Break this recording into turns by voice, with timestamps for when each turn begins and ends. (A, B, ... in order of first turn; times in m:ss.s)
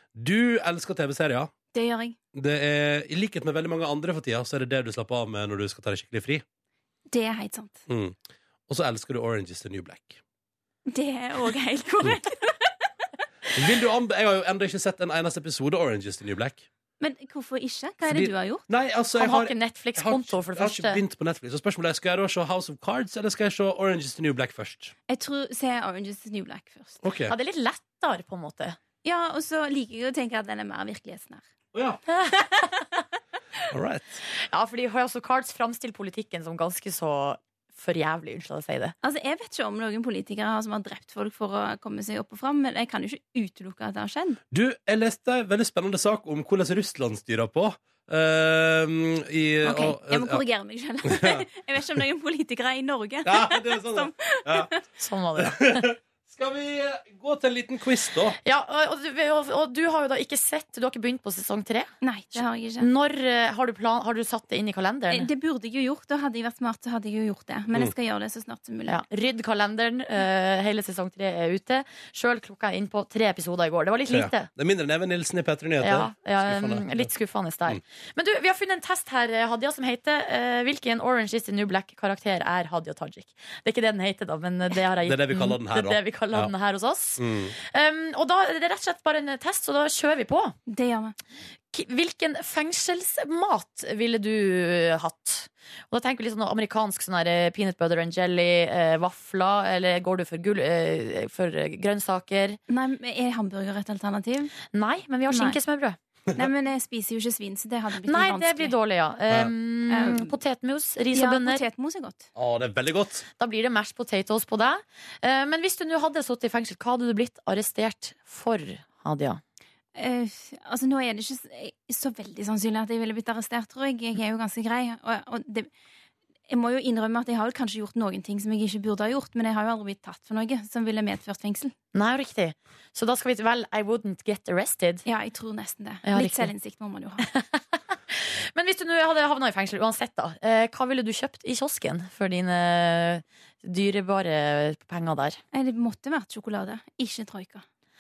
0:00.1-0:01.5 A
0:01.7-0:02.2 B
0:02.3-0:06.4 A
0:07.1-0:07.8 B
0:07.9-0:08.2 A
0:08.7-0:10.2 A
0:10.9-0:12.7 B
0:13.6-0:16.7 A
0:17.0-0:18.6 B
0:18.0-0:24.9 A
0:19.2-0:21.0 C
0:25.1-0:27.0 B
0:27.0-0:27.3 A
0:27.3-0:28.8 C
0:29.0-0:31.4 B
0:31.7-0:32.0 A
0:32.1-0:32.7 C
0:33.7-0:34.2 A
0:34.5-0:38.9 C
0:39.0-0:44.4 B
0:44.5-0:50.4 A
0:49.6-0:54.8 B
0:53.2-0:54.7 A
0:55.0-0:55.9 C
0:55.4-0:58.4 A
0:58.4-1:05.3 C
1:02.0-1:02.9 B
1:05.1-1:09.0 B
1:08.9-1:14.5 C
1:14.1-1:17.1 A
1:15.8-1:30.5 C
1:25.0-1:26.5 A
1:27.2-1:27.5 A
1:30.7-1:31.1 B
1:31.7-1:42.6 C
1:42.7-1:44.5 B
1:44.7-1:46.0 C
1:45.3-1:45.6 B
1:46.4-1:48.7 B
1:48.0-1:51.6 C
1:49.9-1:50.3 B
1:51.1-1:52.3 B
1:52.3-1:53.2 A
1:53.4-1:59.4 C
1:59.9-2:05.7 B
2:06.5-2:11.7 B
2:11.9-2:15.0 C
2:15.0-2:17.3 B
2:16.0-2:16.5 C
2:17.2-2:25.4 C
2:25.5-2:27.6 B